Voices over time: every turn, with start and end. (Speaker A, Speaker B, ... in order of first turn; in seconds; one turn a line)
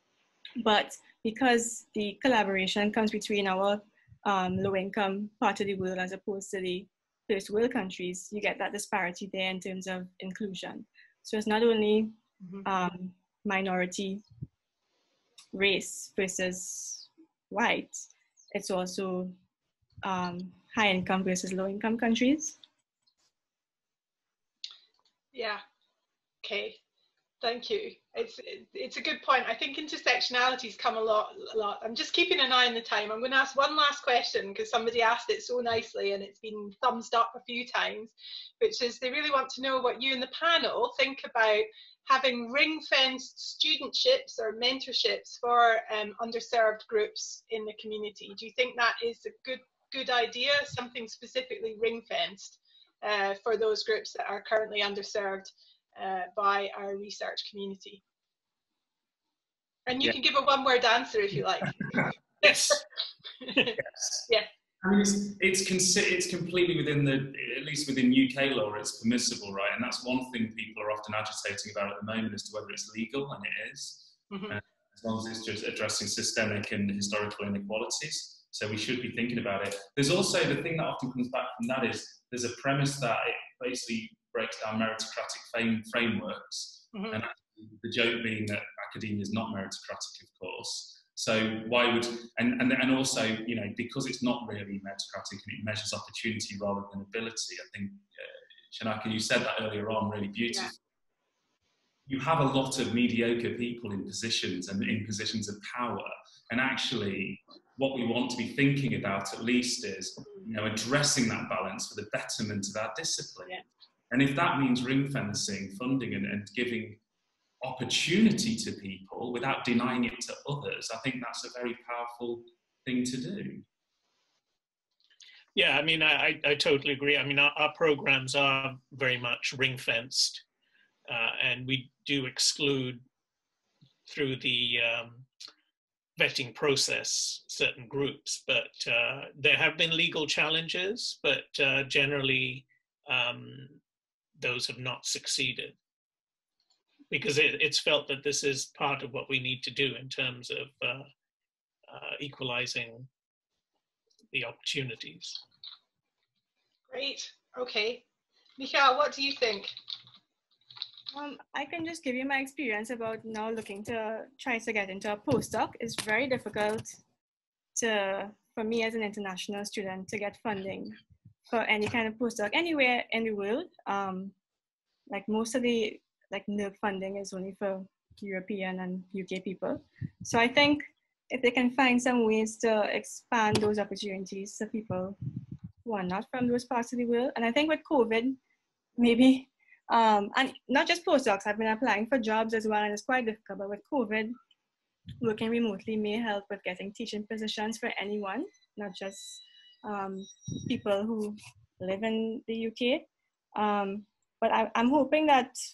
Speaker A: 0.6-14.2
Speaker A: 15.5-19.4
Speaker A: 20.0-22.6
Speaker B: 25.3-25.6
Speaker B: 26.4-26.8
Speaker B: 27.4-58.0
Speaker B: 59.9-62.8
Speaker C: 62.4-62.8
Speaker B: 63.4-64.5
Speaker D: 63.8-64.2
Speaker D: 64.8-98.1
Speaker B: 74.3-74.6
Speaker B: 86.9-87.2
Speaker D: 98.7-100.8
Speaker D: 102.1-113.6
Speaker D: 114.1-117.0
Speaker D: 117.6-123.7
Speaker C: 125.5-130.4
Speaker C: 131.1-133.0
Speaker C: 134.1-135.3
Speaker C: 136.2-143.8
Speaker C: 144.4-145.8
Speaker C: 147.1-151.1
Speaker C: 151.9-153.1
Speaker C: 154.3-155.4
Speaker B: 156.9-158.1
Speaker B: 158.6-159.7
Speaker A: 161.1-167.0
Speaker A: 167.8-170.9
Speaker A: 171.5-174.3
Speaker A: 175.1-185.2
Speaker A: 185.8-188.4
Speaker A: 189.0-194.4
Speaker A: 195.2-205.6